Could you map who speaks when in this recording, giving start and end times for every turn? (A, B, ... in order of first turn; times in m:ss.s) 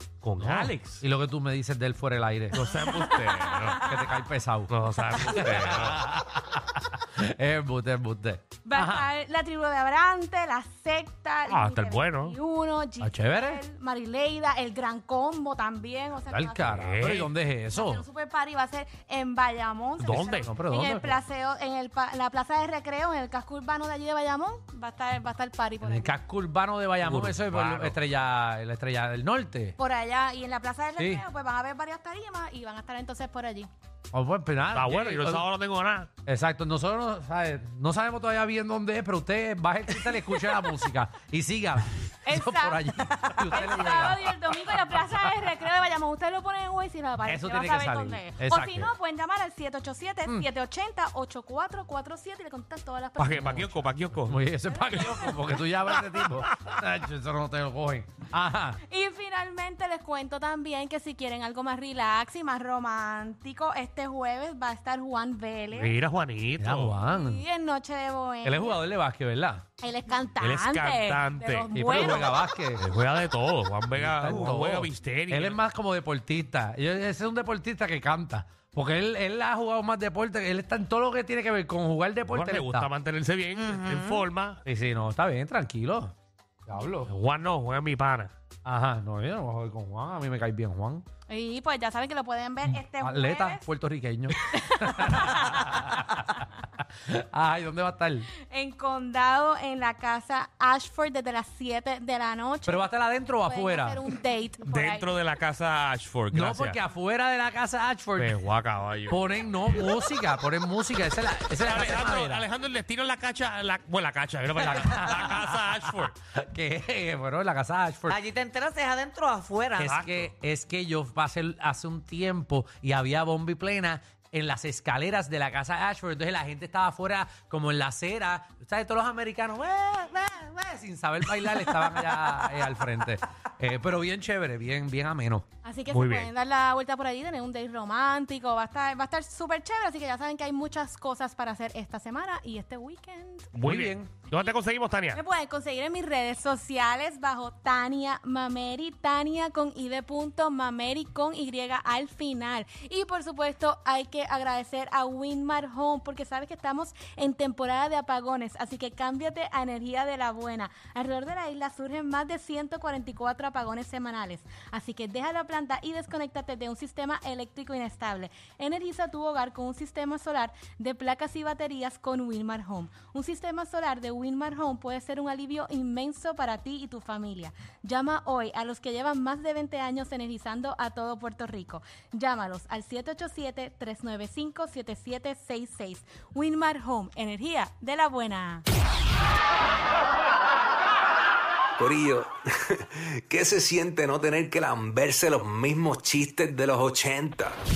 0:00.2-0:01.0 A
0:00.4-0:02.9 B
0:02.5-0:04.0 A
0:02.8-0:03.7 C
0:03.6-0:09.1 B
0:04.7-0:06.2 A
0:08.6-0:16.9 C
0:11.5-0:12.4 A
0:13.0-0:13.6 B
0:16.2-0:18.0 B
0:16.7-0:17.3 A
0:17.7-0:26.2 C
0:20.0-0:20.5 A
0:20.1-0:21.2 B
0:25.8-0:29.8 B
0:27.0-0:28.0 A
0:29.8-0:33.7 C
0:31.0-0:31.2 B
0:34.1-0:35.4 B
0:34.7-0:36.1 A
0:36.3-0:44.3 B
0:42.3-0:53.7 C
0:47.2-0:48.9 B
0:53.2-0:54.4 A
0:54.2-0:58.8 B
0:54.7-0:55.6 C
0:55.0-0:55.2 A
0:58.9-1:06.0 C
1:05.7-1:07.0 A
1:06.6-1:07.4 B
1:07.0-1:08.8 C
1:08.4-1:09.6 B
1:09.8-1:12.5 C
1:10.4-1:12.2 A
1:11.7-1:12.8 B
1:12.8-1:15.6 A
1:13.9-1:22.9 B
1:22.3-1:24.6 A
1:23.6-1:24.3 D
1:24.7-1:26.1 B
1:26.7-1:27.1 B
1:27.0-1:28.3 A
1:28.6-1:31.0 B
1:31.3-1:33.7 C
1:32.7-1:38.3 B
1:34.5-1:35.8 C
1:38.5-1:42.9 C
1:42.7-1:44.0 B
1:43.4-1:45.1 C
1:44.7-1:46.8 A
1:46.3-1:48.4 B
1:48.2-1:49.2 A
1:49.1-1:52.5 B
1:51.6-1:56.1 A
1:54.6-1:58.2 B
1:58.1-2:00.0 D
1:59.8-2:15.4 B
1:59.8-2:00.3 A
2:15.6-2:23.5 C
2:15.9-2:16.3 A
2:23.5-2:25.2 A
2:23.6-2:24.1 B
2:25.1-3:08.6 C
3:11.8-3:17.6 E